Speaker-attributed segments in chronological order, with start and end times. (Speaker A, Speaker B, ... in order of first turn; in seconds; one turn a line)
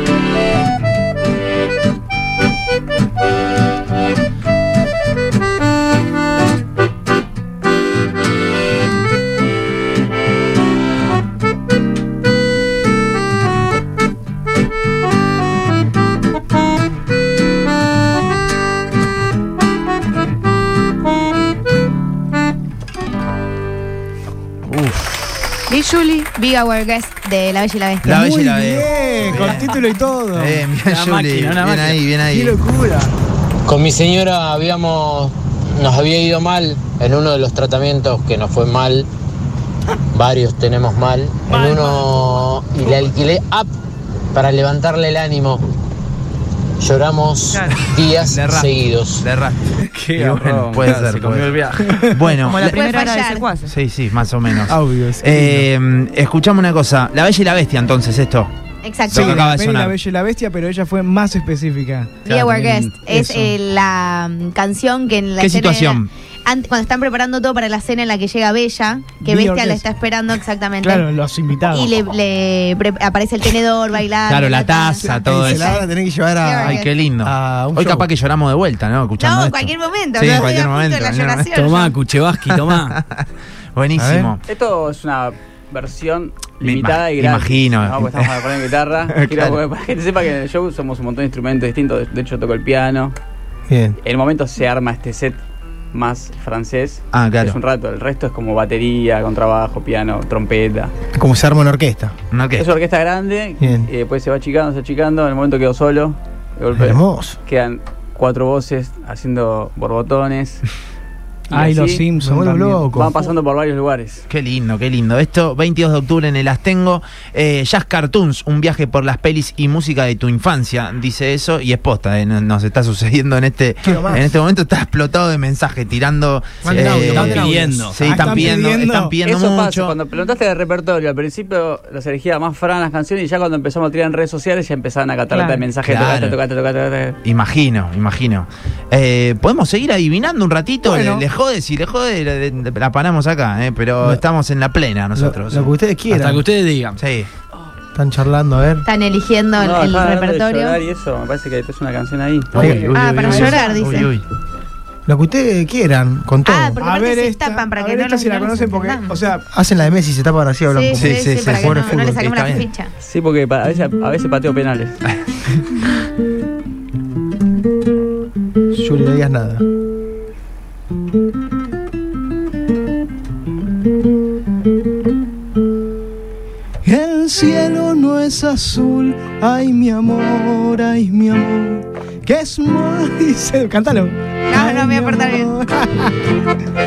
Speaker A: 24.7-25.6
Speaker B: 25.7-28.2
Speaker C: 25.8-26.2
Speaker A: 28.0-29.8
Speaker D: 28.1-30.6
Speaker A: 30.3-32.6
Speaker E: 30.8-32.1
Speaker D: 32.3-33.1
Speaker F: 33.6-39.1
Speaker F: 40.1-43.7
Speaker D: 41.5-42.0
Speaker F: 44.3-45.6
Speaker F: 46.8-49.3
Speaker C: 47.5-47.8
Speaker A: 48.3-52.8
Speaker E: 49.8-52.1
Speaker C: 52.4-53.7
Speaker B: 52.6-53.5
Speaker A: 53.6-58.5
Speaker G: 54.7-55.7
Speaker B: 58.8-59.4
Speaker A: 59.1-59.9
Speaker D: 59.1-63.5
Speaker B: 62.2-71.1
Speaker A: 65.4-66.1
Speaker D: 69.2-69.8
Speaker D: 70.8-71.9
Speaker B: 71.7-75.9
Speaker A: 74.2-75.8
Speaker G: 75.0-78.1
Speaker B: 76.4-76.8
Speaker A: 76.6-81.5
Speaker B: 79.2-82.0
Speaker E: 81.5-83.0
Speaker A: 82.5-84.4
Speaker G: 84.0-84.3
Speaker H: 84.5-93.1
Speaker A: 86.6-88.3
Speaker A: 89.2-89.6
Speaker G: 93.7-94.0
Speaker H: 94.0-95.4
Speaker H: 95.9-100.9
Speaker A: 97.1-97.6
Speaker G: 101.1-102.1
Speaker A: 102.3-102.7
Speaker H: 102.6-110.6
Speaker G: 103.6-103.9
Speaker G: 106.7-107.3
Speaker H: 111.5-112.0
Speaker D: 111.5-112.9
Speaker G: 112.2-113.3
Speaker H: 112.9-114.2
Speaker A: 114.3-129.9
Speaker G: 123.8-124.3
Speaker G: 126.6-128.0
Speaker E: 126.8-128.4
Speaker D: 128.0-129.1
Speaker H: 129.2-137.2
Speaker C: 135.3-135.7
Speaker A: 135.8-136.4
Speaker A: 137.2-145.7
Speaker D: 140.8-141.2
Speaker G: 145.2-146.4
Speaker E: 146.1-147.0
Speaker A: 147.0-147.3
Speaker G: 147.9-148.8
Speaker B: 148.8-150.8
Speaker H: 149.6-152.8
Speaker A: 152.5-154.2
Speaker G: 152.6-152.9
Speaker D: 152.6-153.8
Speaker B: 152.9-154.1
Speaker G: 155.1-156.8
Speaker B: 156.4-159.1
Speaker D: 156.8-159.5
Speaker G: 159.5-162.2
Speaker B: 160.7-162.9
Speaker A: 160.9-162.7
Speaker H: 163.0-165.0
Speaker G: 168.7-169.6
Speaker D: 176.8-186.2
Speaker B: 184.5-185.5